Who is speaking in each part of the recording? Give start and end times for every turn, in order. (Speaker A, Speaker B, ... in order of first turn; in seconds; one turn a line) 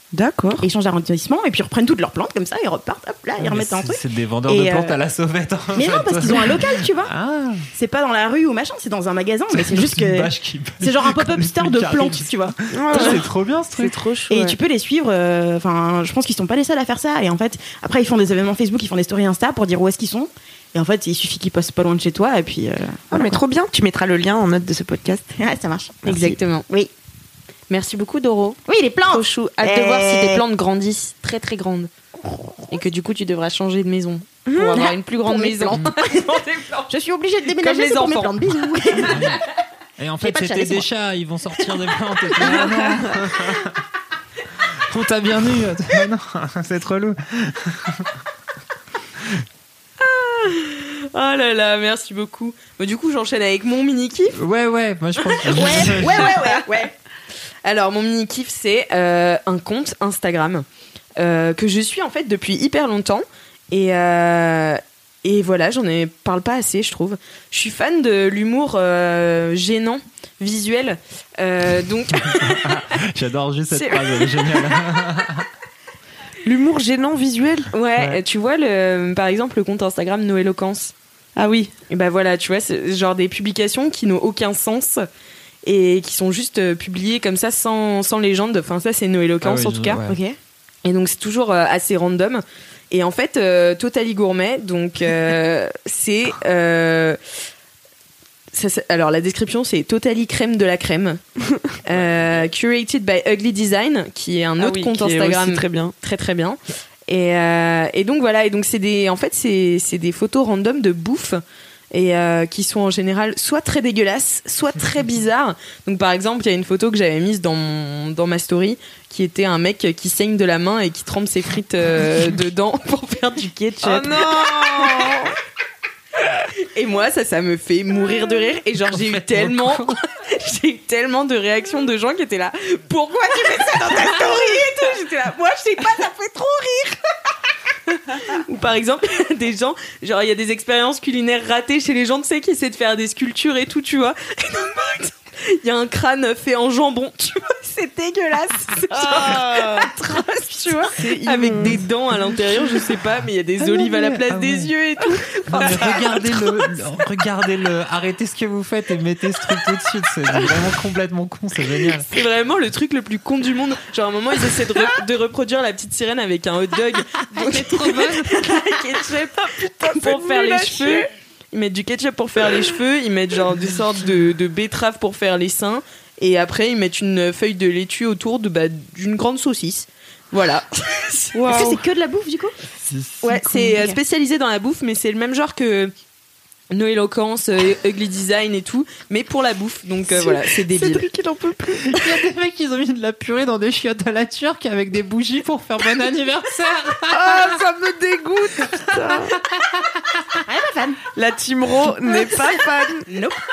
Speaker A: 0.1-0.7
Speaker B: 0.6-5.0
Speaker C: 3.4-7.7
Speaker B: 5.7-7.1
Speaker B: 7.7-13.1
Speaker C: 9.5-13.9
Speaker A: 12.7-13.3
Speaker D: 13.8-14.6
Speaker B: 14.3-23.4
Speaker A: 23.1-25.3
Speaker B: 25.4-26.9
Speaker D: 26.1-26.6
Speaker D: 27.7-31.9
Speaker B: 28.7-30.4
Speaker D: 32.7-36.9
Speaker B: 34.7-39.4
Speaker D: 37.6-38.3
Speaker C: 39.1-39.4
Speaker C: 40.0-43.8
Speaker B: 40.2-40.9
Speaker C: 44.8-48.1
Speaker D: 50.0-54.4
Speaker C: 54.4-56.4
Speaker B: 55.4-56.9
Speaker D: 57.6-60.6
Speaker D: 61.2-72.7
Speaker C: 72.3-75.5
Speaker D: 73.7-74.5
Speaker A: 76.4-77.7
Speaker D: 77.7-80.9
Speaker A: 81.4-81.7
Speaker D: 81.9-85.1
Speaker D: 85.6-90.0
Speaker C: 89.4-90.2
Speaker B: 90.0-90.4
Speaker D: 90.8-97.2
Speaker D: 98.5-101.2
Speaker D: 101.8-111.4
Speaker A: 104.6-105.9
Speaker D: 111.9-125.1
Speaker A: 123.8-125.3
Speaker D: 126.6-137.0
Speaker C: 128.9-129.9
Speaker D: 137.9-156.4
Speaker A: 148.9-149.9
Speaker A: 150.8-151.8
Speaker C: 153.6-154.7
Speaker C: 155.5-162.1
Speaker D: 162.0-181.4
Speaker C: 167.4-168.1
Speaker B: 168.2-168.7
Speaker A: 169.5-171.1
Speaker A: 181.3-181.8
Speaker B: 181.5-182.6
Speaker C: 182.8-183.7
Speaker D: 183.2-185.9
Speaker B: 183.6-184.0
Speaker D: 186.7-191.1
Speaker A: 190.1-192.2
Speaker C: 191.8-197.6
Speaker A: 197.1-199.4
Speaker C: 199.4-200.4
Speaker B: 200.4-201.0
Speaker A: 201.2-203.1
Speaker B: 203.1-203.4